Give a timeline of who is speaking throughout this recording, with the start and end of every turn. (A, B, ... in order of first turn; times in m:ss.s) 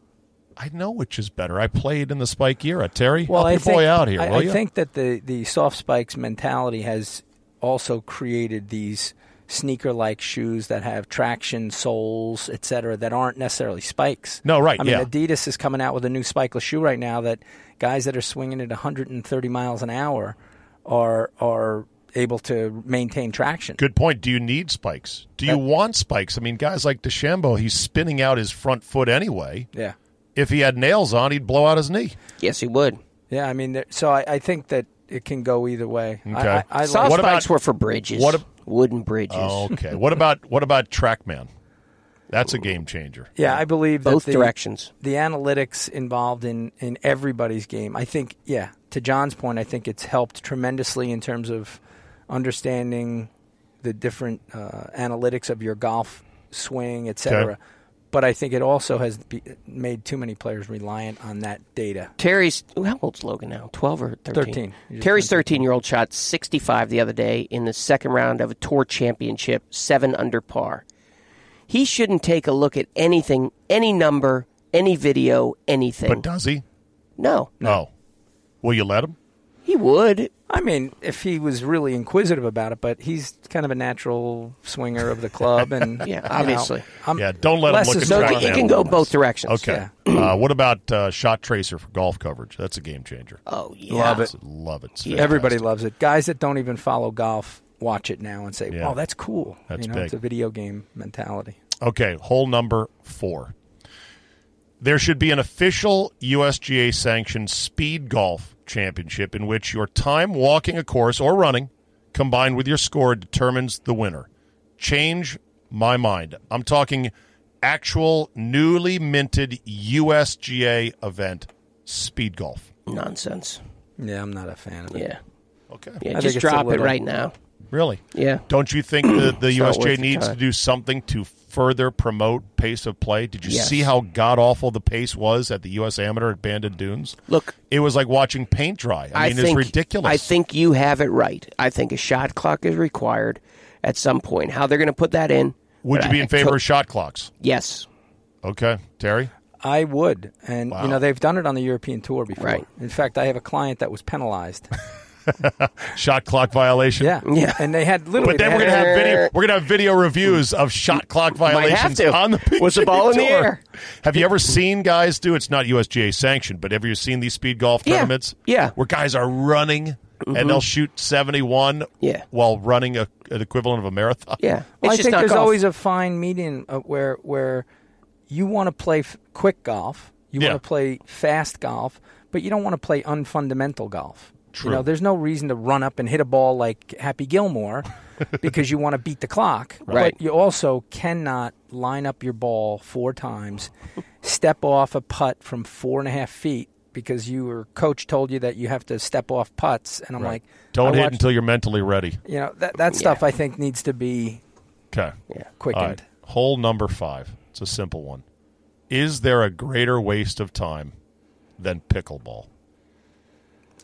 0:00.6-0:04.6 A
0:03.3-0:23.8 B
0:14.4-0:15.1 A
0:23.8-0:29.7 A
0:30.4-0:32.2 A
0:32.4-0:33.0 C
0:33.3-0:37.3 B
0:36.3-0:37.5 A
0:36.8-0:39.7 C
0:38.1-0:38.4 A
0:39.3-0:41.5 A
0:42.3-0:43.6 A
0:43.4-0:53.3 B
0:44.0-0:44.9 C
0:53.8-0:57.6 B
0:58.1-1:02.1 B
1:02.2-1:10.8 C
1:04.3-1:05.6 B
1:11.7-1:16.2 C
1:16.1-1:16.6 A
1:17.2-1:17.6 C
1:17.6-1:17.9 A
1:18.6-1:19.2 A
1:19.7-1:20.3 C
1:20.5-1:29.0 B
1:26.0-1:26.9 C
1:27.2-1:33.4 A
1:28.0-1:30.3 C
1:29.6-1:29.9 B
1:33.5-1:34.3 C
1:33.9-1:34.3 B
1:34.2-1:35.6 A
1:35.0-1:35.3 C
1:35.2-1:41.6 B
1:38.7-1:39.0 A
1:39.7-1:40.1 A
1:41.8-1:43.5 A
1:44.8-2:02.7 A
2:02.9-2:03.6 C
2:04.0-2:05.1 B
2:04.9-2:05.2 C
2:05.7-2:06.0 A
2:06.0-2:07.3 C
2:06.1-2:07.0 B
2:07.7-2:17.2 A
2:08.1-2:08.4 C
2:09.0-2:10.4 C
2:13.5-2:13.8 C
2:17.3-2:17.5 C
2:17.7-2:20.3 A
2:19.1-2:26.6 C
2:25.8-2:27.3 A
2:27.4-2:27.9 C
2:28.4-2:29.3 A
2:29.6-2:34.7 B
2:30.7-2:31.0 A
2:32.4-2:32.6 C
2:35.3-2:37.2 A
2:37.0-2:38.9 B
2:37.2-2:37.7 C
2:38.2-2:54.4 A
2:38.2-2:39.3 C
2:41.4-2:43.6 C
2:47.9-2:48.7 C
2:50.2-2:50.6 C
2:54.4-2:55.6 C
2:54.8-2:57.7 B
2:58.3-3:13.7 B
3:04.5-3:04.9 A
3:09.9-3:10.2 C
3:14.2-3:21.2 B
3:20.2-3:22.2 A
3:22.3-3:24.4 B
3:22.9-3:23.2 C
3:25.6-3:26.0 B
3:25.7-3:28.2 A
3:28.9-3:30.9 A
3:31.6-3:32.5 A